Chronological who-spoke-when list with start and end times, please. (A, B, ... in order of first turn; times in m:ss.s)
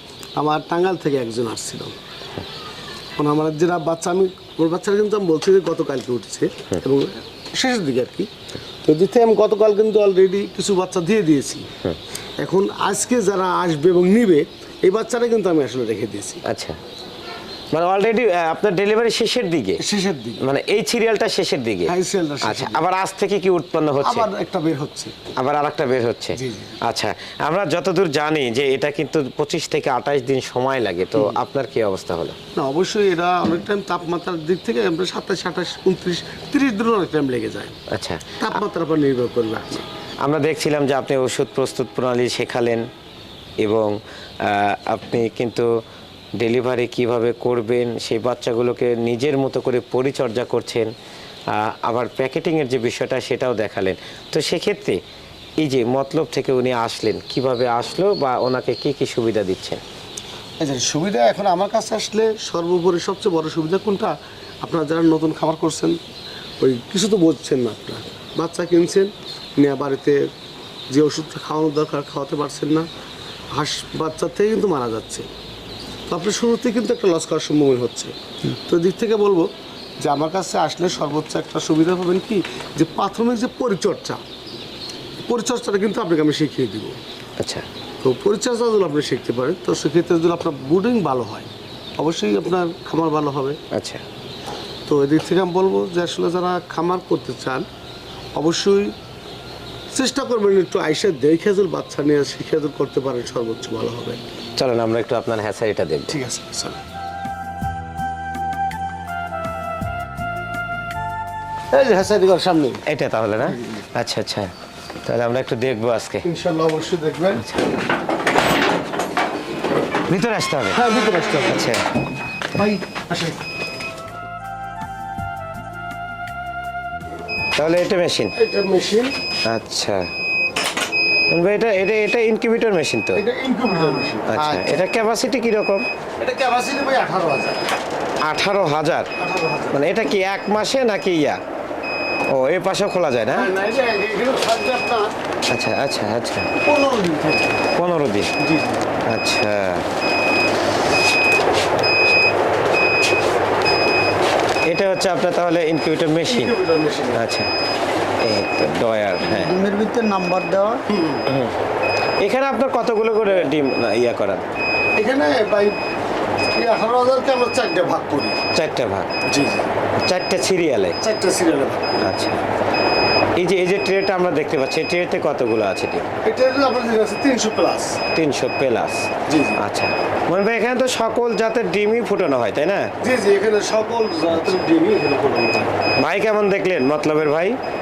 0:00.4-0:02.0 A
0:03.2-0:08.3 A
0:08.8-0:11.7 A
0:12.4-0:16.4 A
0:16.5-0:16.8 B
0:17.7-0:19.8 B
0:19.8-0:20.4 A
0:20.4-0:24.3 B
0:21.9-0:22.8 A
0:24.0-0:25.1 A
0:25.4-0:32.4 B
0:26.3-0:26.8 A
0:32.5-0:37.8 A
0:37.9-0:38.4 B
0:38.4-0:39.8 A
0:40.2-0:42.8 B
0:43.6-0:45.7 B
0:46.4-0:50.9 B
0:51.5-0:55.0 B
0:55.6-0:59.8 B
1:00.6-1:06.0 A
1:06.6-1:10.3 A
1:10.9-1:12.9 A
1:13.5-1:15.3 A
1:16.1-1:24.2 A
1:25.3-1:27.0 A
1:27.4-1:27.6 B
1:28.0-1:33.6 A
1:33.7-1:34.0 B
1:34.9-1:37.6 A
1:38.3-1:38.9 A
1:39.9-1:44.2 A
1:44.6-1:46.2 B
1:46.1-1:46.8 A
1:51.7-1:52.8 A
1:52.9-1:54.5 B
1:53.4-1:53.8 A
1:55.0-1:56.2 B
1:56.2-1:57.4 A
1:57.4-1:57.6 B
2:00.1-2:00.8 B
2:00.7-2:01.7 A
2:01.5-2:01.8 B
2:02.5-2:03.4 A
2:07.6-2:08.3 B
2:08.3-2:09.1 A
2:09.4-2:10.0 B
2:11.3-2:13.2 B
2:13.1-2:14.5 A
2:13.7-2:14.7 C
2:14.3-2:15.8 B
2:16.2-2:17.6 A
2:18.2-2:19.1 B
2:19.2-2:19.8 A
2:19.7-2:21.4 B
2:22.3-2:23.5 B
2:23.3-2:25.1 A
2:25.5-2:26.5 B
2:26.6-2:27.6 A
2:27.7-2:28.3 B
2:28.4-2:28.9 A
2:29.0-2:29.8 B
2:34.6-2:36.5 B
2:36.2-2:37.2 A
2:37.1-2:37.5 B
2:38.2-2:39.5 B
2:39.2-2:40.8 C
2:40.9-2:41.2 A
2:41.3-2:41.6 B
2:42.2-2:44.4 B
2:45.0-2:45.8 A
2:46.5-2:48.4 A
2:48.5-2:49.1 B
2:49.3-2:49.7 A
2:50.0-2:51.0 B
2:51.0-2:52.1 A
2:52.0-2:52.4 B
2:53.4-2:56.1 B
2:56.2-2:58.0 A
2:58.1-2:59.1 B
2:59.3-2:59.6 A
2:59.6-3:02.9 B
3:03.0-3:05.8 A
3:06.0-3:07.6 B